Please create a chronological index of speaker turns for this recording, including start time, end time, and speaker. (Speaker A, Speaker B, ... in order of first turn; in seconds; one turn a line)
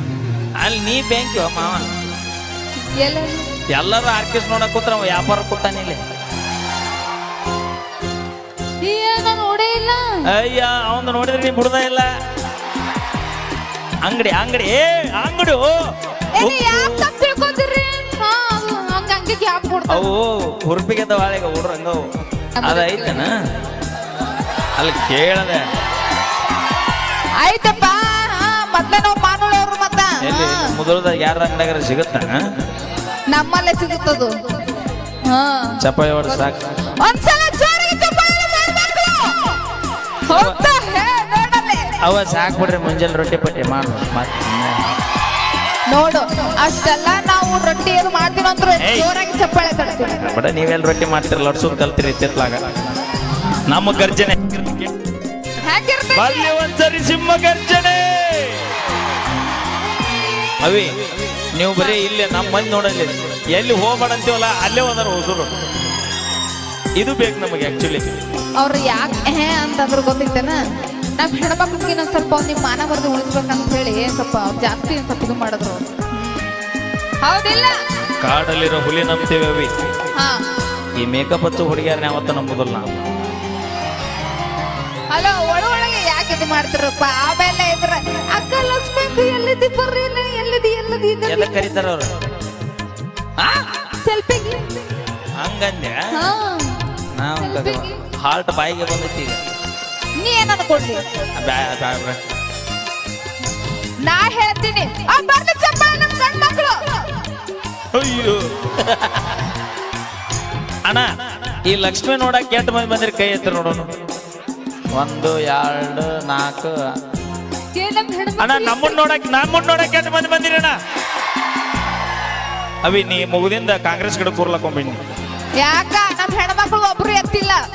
Speaker A: 0.6-1.8
Speaker B: 3.0-3.5
Speaker A: 3.7-6.0
Speaker B: 8.8-10.2
Speaker A: 10.3-12.1
Speaker A: 14.0-15.8
Speaker B: 16.3-20.1
Speaker A: 16.4-17.1
Speaker A: 19.9-22.0
Speaker B: 22.6-23.2
Speaker A: 22.6-23.3
Speaker A: 24.8-25.6
Speaker B: 27.4-30.7
Speaker A: 30.2-32.5
Speaker B: 33.3-34.3
Speaker B: 35.2-39.5
Speaker A: 35.8-36.8
Speaker B: 40.3-42.0
Speaker A: 40.3-40.6
Speaker A: 42.0-44.8
Speaker B: 45.9-50.2
Speaker A: 48.8-49.1
Speaker A: 50.2-52.6
Speaker A: 53.7-54.9
Speaker B: 55.6-56.5
Speaker A: 56.1-58.6
Speaker A: 60.6-60.9
Speaker A: 61.5-65.5
Speaker A: 67.0-68.1
Speaker B: 68.5-70.6
Speaker B: 71.2-76.5
Speaker B: 77.2-77.8
Speaker A: 78.2-79.7
Speaker B: 80.1-80.4
Speaker A: 81.0-82.9
Speaker B: 85.1-91.8
Speaker A: 91.2-92.1
Speaker A: 93.4-93.7
Speaker B: 94.0-94.9
Speaker A: 95.4-96.1
Speaker B: 96.1-96.8
Speaker A: 97.1-99.4
Speaker B: 97.4-98.0
Speaker B: 100.2-101.0
Speaker A: 101.4-102.2
Speaker B: 104.0-106.8
Speaker A: 107.9-109.3
Speaker A: 111.7-113.9
Speaker A: 114.9-116.7
Speaker B: 117.7-119.0
Speaker A: 118.4-120.7
Speaker A: 122.8-125.0
Speaker B: 125.6-127.6